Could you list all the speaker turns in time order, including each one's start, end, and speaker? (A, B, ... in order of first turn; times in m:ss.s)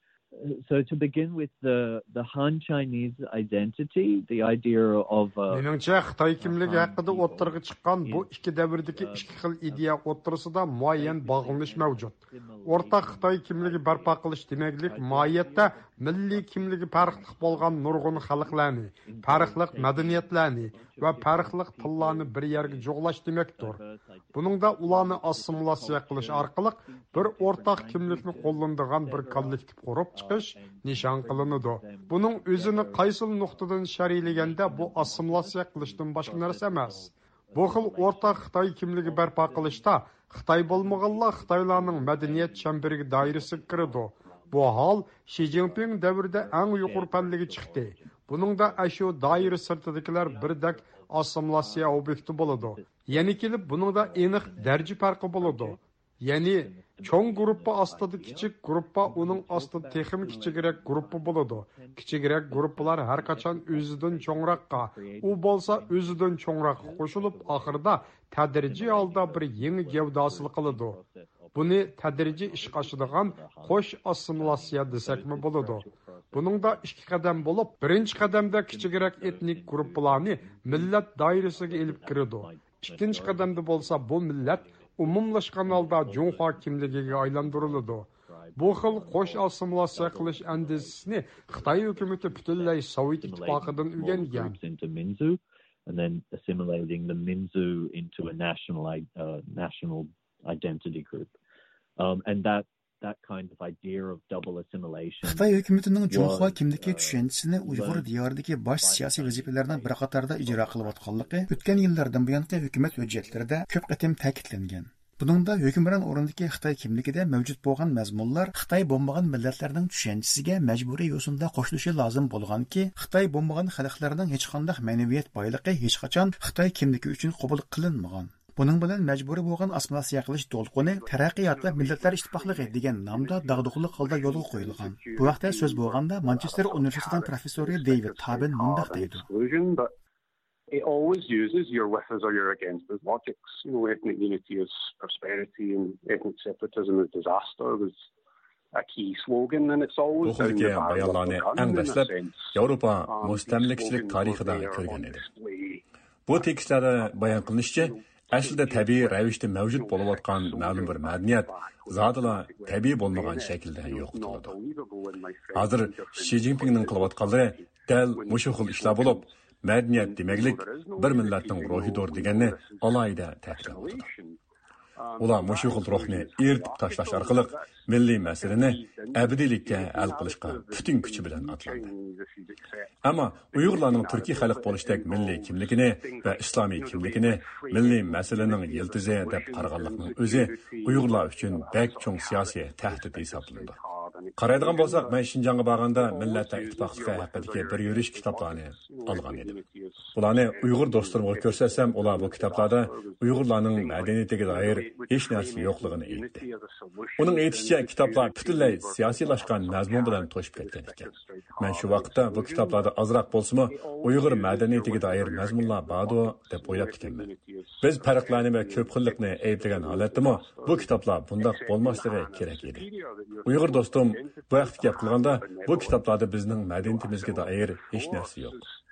0:00.4-0:10.0 A
0:05.5-0:23.8 B
0:10.9-0:44.8 A
0:24.3-1:11.0 B
0:45.4-0:55.8 A
0:56.4-1:16.9 A
1:11.6-1:34.6 B
1:18.1-1:25.1 A
1:25.6-1:41.4 A
1:42.0-1:48.1 A
1:45.2-2:19.2 C
1:48.8-1:53.5 A
2:10.8-2:19.9 D
2:20.7-2:28.1 D
2:28.7-2:32.6 D
2:30.2-2:35.2 E
2:33.1-2:35.8 D
2:36.3-2:44.6 E
2:36.4-2:49.3 D
2:45.6-2:54.1 E
2:49.9-2:54.4 D
2:55.0-3:02.9 D
2:55.2-3:01.9 E
3:03.0-3:13.8 E
3:03.5-3:15.2 D
3:14.4-3:19.6 E
3:15.9-3:32.9 D
3:20.1-3:26.4 E
3:27.2-3:37.3 E
3:33.6-3:46.1 D
3:37.8-3:42.9 E
3:43.4-3:48.6 E
3:46.8-3:48.8 D